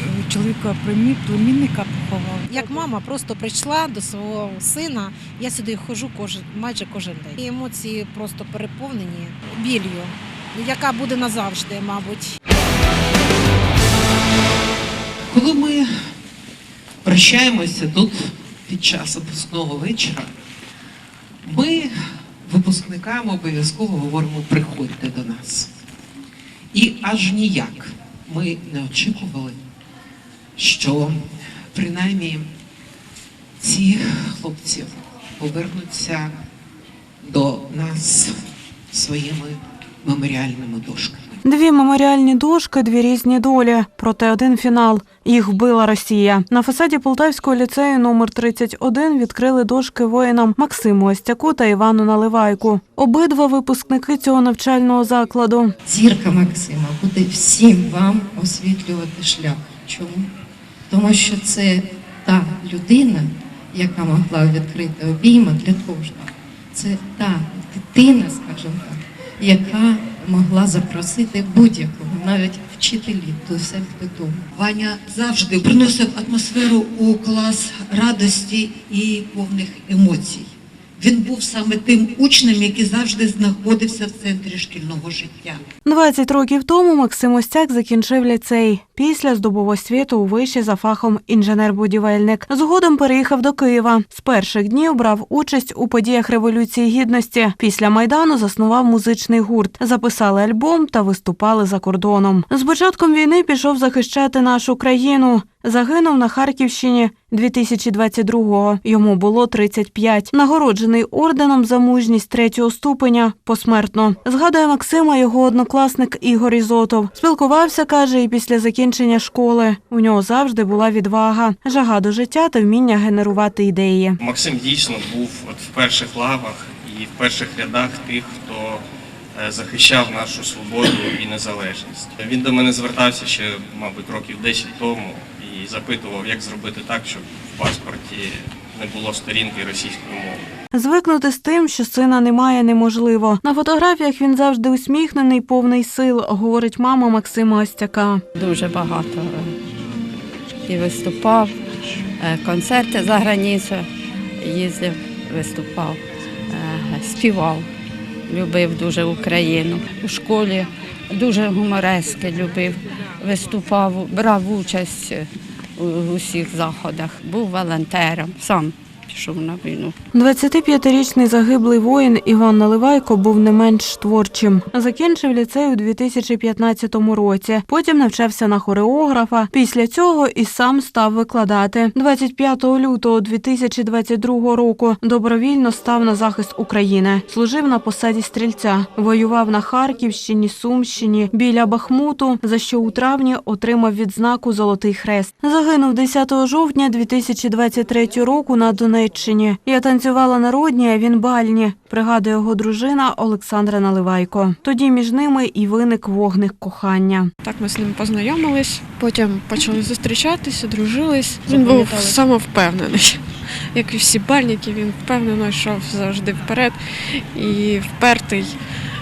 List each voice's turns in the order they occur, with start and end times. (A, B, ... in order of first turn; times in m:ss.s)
0:02.4-0:12.4 A
0:15.3-0:16.0 B
0:17.0-0:20.3 B
0:21.4-0:25.7 B
0:26.7-0:29.6 B
0:30.6-0:32.5 B
0:33.6-0:36.4 B
0:37.2-0:38.4 B
0:38.9-0:41.4 B
0:41.4-0:55.7 C
0:55.9-1:00.3 D
1:00.9-1:25.6 D
1:25.9-2:04.2 C
2:04.2-2:08.8 E
2:09.4-2:20.5 E
2:20.7-2:28.2 C
2:28.3-2:29.6 F
2:30.7-2:31.6 F
2:32.2-2:33.9 F
2:34.4-2:37.7 F
2:38.3-2:50.0 F
2:50.1-3:27.3 C
3:27.4-3:38.6 G